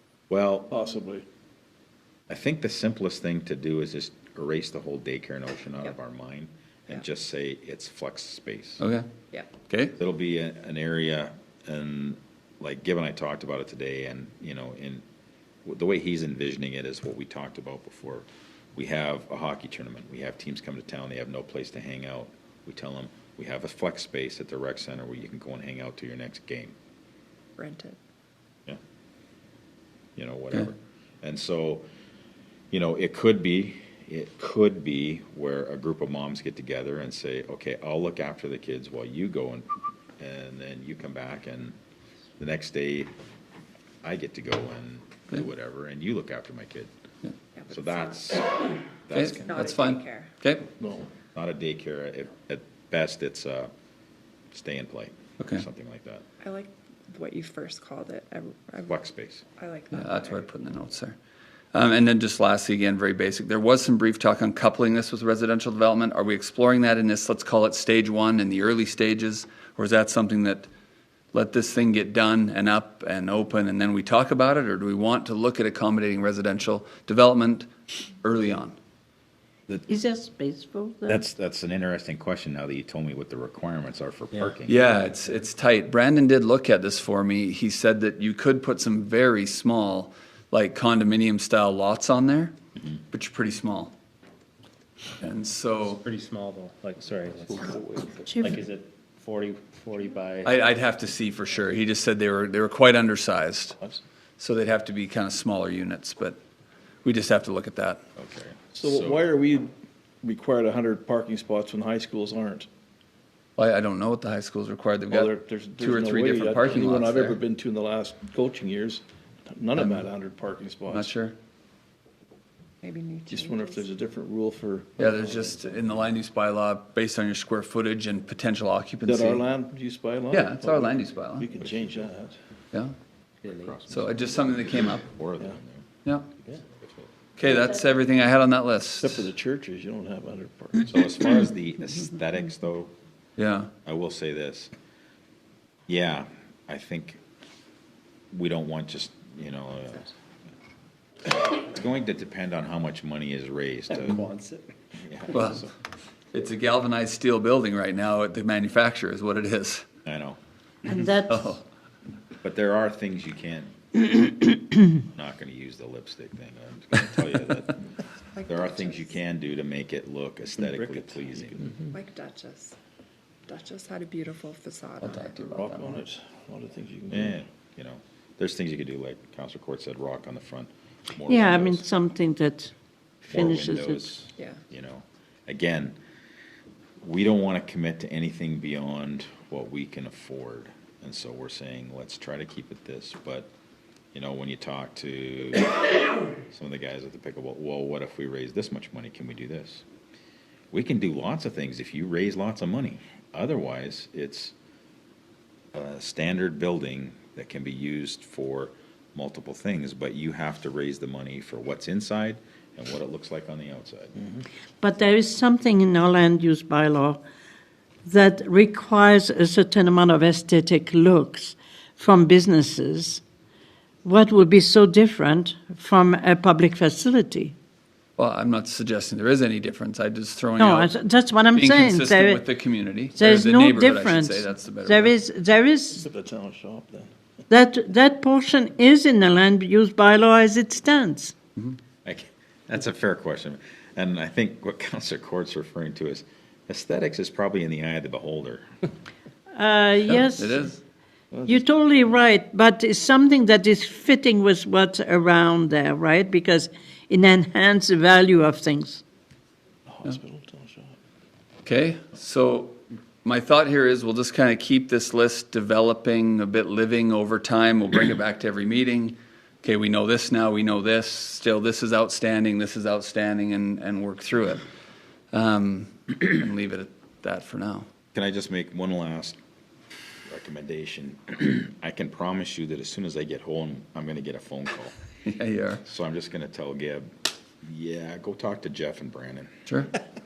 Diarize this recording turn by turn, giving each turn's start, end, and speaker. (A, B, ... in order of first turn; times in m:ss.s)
0:00.3-0:00.7 A
0:00.7-0:01.2 B
0:02.3-0:08.8 A
0:08.8-0:09.1 C
0:09.7-0:10.0 C
0:10.0-0:15.0 A
0:15.7-0:26.8 A
0:27.6-0:28.0 D
0:30.2-0:31.8 A
0:32.7-0:39.7 A
0:40.2-0:41.8 A
0:42.4-0:43.1 A
0:44.0-0:46.9 A
0:47.6-0:48.2 D
0:47.7-0:49.7 A
0:49.1-0:50.7 C
0:49.4-0:50.3 D
0:50.8-0:51.1 B
0:51.4-0:53.7 A
0:54.5-0:56.2 A
0:55.4-0:55.6 C
0:56.4-0:59.0 D
0:58.9-0:59.4 A
0:59.6-1:00.4 D
0:59.9-1:01.2 C
1:01.7-1:10.7 C
1:11.3-1:18.8 C
1:19.9-1:21.2 E
1:21.1-1:24.9 A
1:24.7-1:32.5 C
1:33.1-1:33.9 C
1:35.2-1:36.0 C
1:36.0-1:37.6 F
1:37.5-1:38.2 B
1:38.2-1:38.6 E
1:38.4-1:40.5 F
1:40.4-1:43.8 C
1:44.4-1:46.4 C
1:47.0-1:48.0 C
1:48.2-1:49.3 A
1:48.8-1:49.7 B
1:50.2-1:52.7 B
1:53.6-1:57.4 C
1:55.1-2:01.1 B
1:59.8-2:00.0 C
2:00.9-2:01.4 C
2:02.8-2:03.9 D
2:03.3-2:05.8 B
2:05.0-2:09.4 C
2:09.1-2:12.4 B
2:10.3-2:11.5 C
2:11.6-2:12.1 A
2:13.4-2:15.8 A
2:13.9-2:15.1 C
2:16.4-2:17.1 A
2:17.4-2:19.3 C
2:19.0-2:20.9 B
2:20.9-2:22.9 A
2:23.4-2:23.7 C
2:23.8-2:24.7 A
2:25.9-2:27.2 A
2:28.3-2:30.1 A
2:31.3-2:34.3 A
2:34.2-2:34.6 F
2:35.0-2:35.7 A
2:35.3-2:35.7 C
2:36.3-2:39.8 C
2:40.0-2:40.4 A
2:40.9-2:41.6 E
2:41.3-2:41.6 C
2:42.4-2:47.8 A
2:48.4-2:49.1 D
2:48.5-2:51.8 A
2:50.6-2:51.9 B
2:51.9-2:52.8 D
2:53.5-2:55.4 D
2:55.0-2:56.0 C
2:55.4-2:57.4 B
2:57.1-3:01.9 A
3:01.3-3:02.7 E
3:03.2-3:04.1 E
3:03.3-3:06.0 A
3:07.0-3:13.5 A
3:14.1-3:15.7 A
3:16.5-3:19.8 A
3:20.7-3:24.5 A
3:25.7-3:34.2 A
3:34.8-3:37.2 E
3:38.1-3:43.2 E
3:44.0-3:47.6 E
3:48.2-3:50.9 C
3:50.6-3:52.4 E
3:51.5-3:55.2 C
3:53.2-3:56.1 E
3:55.9-3:57.1 B
3:57.5-4:01.3 E
4:02.0-4:08.7 A
4:09.5-4:10.7 E
4:10.0-4:10.8 C
4:11.3-4:11.7 B
4:11.5-4:19.0 E
4:19.9-4:21.0 B
4:21.6-4:34.6 C
4:35.3-4:37.9 C
4:38.1-4:39.4 A
4:40.3-4:45.0 A
4:45.2-4:45.8 C
4:45.8-4:47.1 A
4:47.6-4:49.5 A
4:49.7-4:50.0 C